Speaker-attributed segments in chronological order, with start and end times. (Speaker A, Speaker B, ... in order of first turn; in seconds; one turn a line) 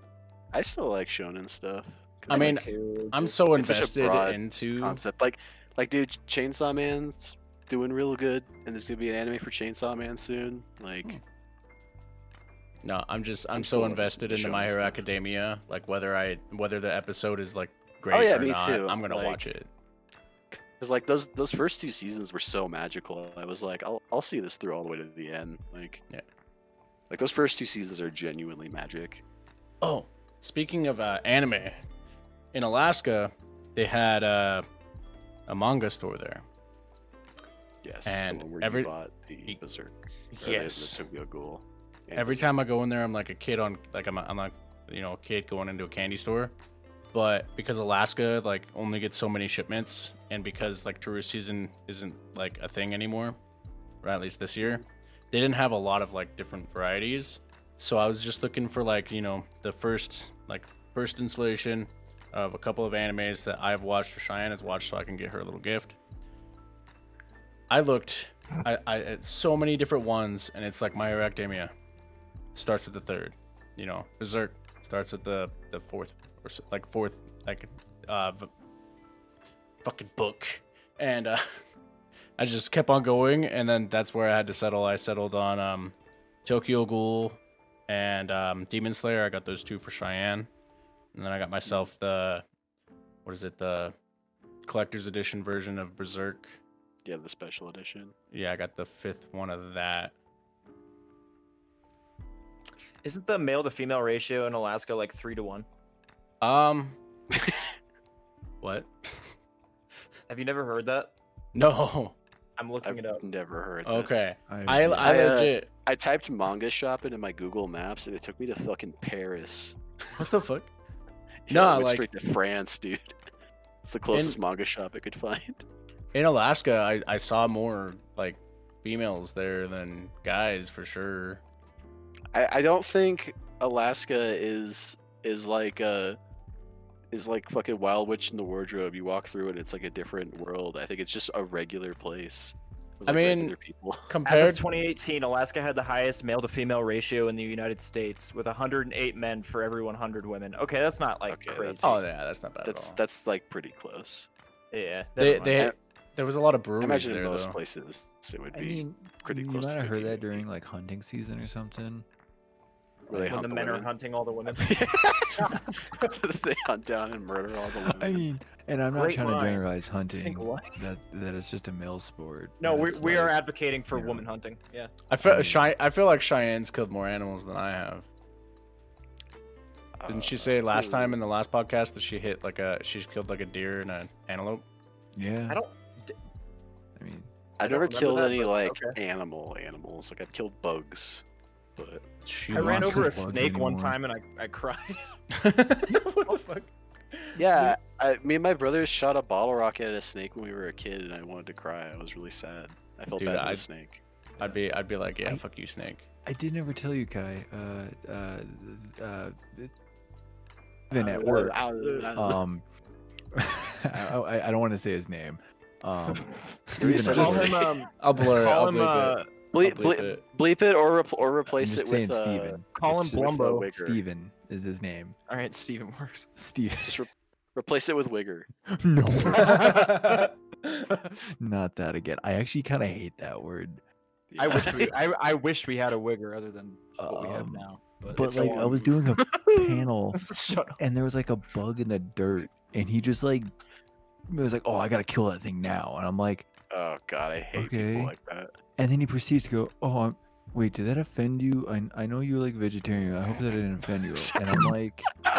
Speaker A: 0.5-2.6
Speaker B: 2.3-3.2
Speaker C: 2.3-5.0
Speaker A: 3.2-11.2
Speaker C: 12.8-19.7
Speaker A: 13.5-15.0
Speaker A: 18.1-19.4
Speaker A: 20.5-26.0
Speaker A: 27.1-29.2
Speaker C: 29.8-31.8
Speaker C: 32.5-34.6
Speaker C: 35.5-36.4
Speaker A: 37.8-42.5
Speaker C: 38.0-38.9
Speaker C: 40.3-41.0
Speaker C: 42.1-46.5
Speaker C: 47.1-53.4
Speaker C: 54.0-66.0
Speaker C: 67.7-71.7
Speaker C: 72.5-78.5
Speaker C: 79.8-81.6
Speaker C: 82.4-85.9
Speaker C: 86.4-90.5
Speaker C: 91.1-92.4
Speaker C: 93.2-93.9
Speaker C: 94.7-96.6
Speaker A: 97.0-98.1
Speaker C: 98.3-100.1
Speaker B: 103.0-105.7
Speaker C: 106.4-107.0
Speaker C: 108.6-109.3
Speaker B: 110.3-111.1
Speaker C: 111.5-112.2
Speaker B: 112.6-113.2
Speaker A: 112.8-114.2
Speaker C: 113.8-115.7
Speaker D: 114.5-115.1
Speaker A: 115.0-120.2
Speaker C: 120.2-120.7
Speaker A: 121.5-123.2
Speaker C: 121.5-122.0
Speaker A: 123.8-125.6
Speaker C: 124.1-124.4
Speaker C: 126.1-131.4
Speaker A: 132.3-136.2
Speaker A: 137.1-144.1
Speaker C: 143.1-143.5
Speaker C: 144.1-144.6
Speaker B: 144.2-152.1
Speaker A: 151.3-152.1
Speaker C: 151.8-153.0
Speaker A: 152.6-154.3
Speaker B: 154.7-155.6
Speaker C: 155.2-157.6
Speaker A: 156.8-160.4
Speaker D: 158.5-162.1
Speaker A: 163.1-163.9
Speaker B: 163.1-164.7
Speaker A: 164.5-168.3
Speaker B: 165.4-166.1
Speaker D: 167.9-173.4
Speaker B: 168.9-170.8
Speaker B: 172.6-174.9
Speaker D: 173.9-174.2
Speaker C: 175.1-178.1
Speaker D: 175.2-175.7
Speaker A: 180.0-181.2
Speaker C: 180.1-184.6
Speaker D: 185.1-185.6
Speaker B: 185.5-186.2
Speaker D: 186.9-187.3
Speaker A: 187.6-191.2
Speaker B: 187.6-188.9
Speaker A: 191.8-192.1
Speaker C: 192.2-193.2
Speaker D: 192.5-194.0
Speaker B: 192.5-195.0
Speaker C: 195.3-197.4
Speaker A: 197.4-204.0
Speaker C: 203.2-203.7
Speaker C: 204.4-206.1
Speaker D: 206.2-209.7
Speaker D: 210.9-211.6
Speaker A: 210.9-212.4
Speaker B: 211.0-212.1
Speaker D: 212.1-212.6
Speaker D: 213.3-217.6
Speaker A: 216.8-217.7
Speaker B: 216.9-219.3
Speaker C: 217.0-220.2
Speaker A: 219.5-224.0
Speaker D: 221.6-225.2
Speaker B: 222.7-223.7
Speaker B: 225.3-226.3
Speaker D: 226.3-227.0
Speaker A: 226.8-228.5
Speaker D: 228.7-230.2
Speaker B: 229.3-230.3
Speaker B: 230.8-231.1
Speaker D: 231.4-233.8
Speaker A: 234.3-234.9
Speaker B: 234.4-238.9
Speaker D: 237.0-243.5
Speaker B: 240.1-240.8
Speaker D: 244.3-246.5
Speaker A: 246.7-248.5
Speaker D: 247.5-248.1
Speaker D: 248.8-255.1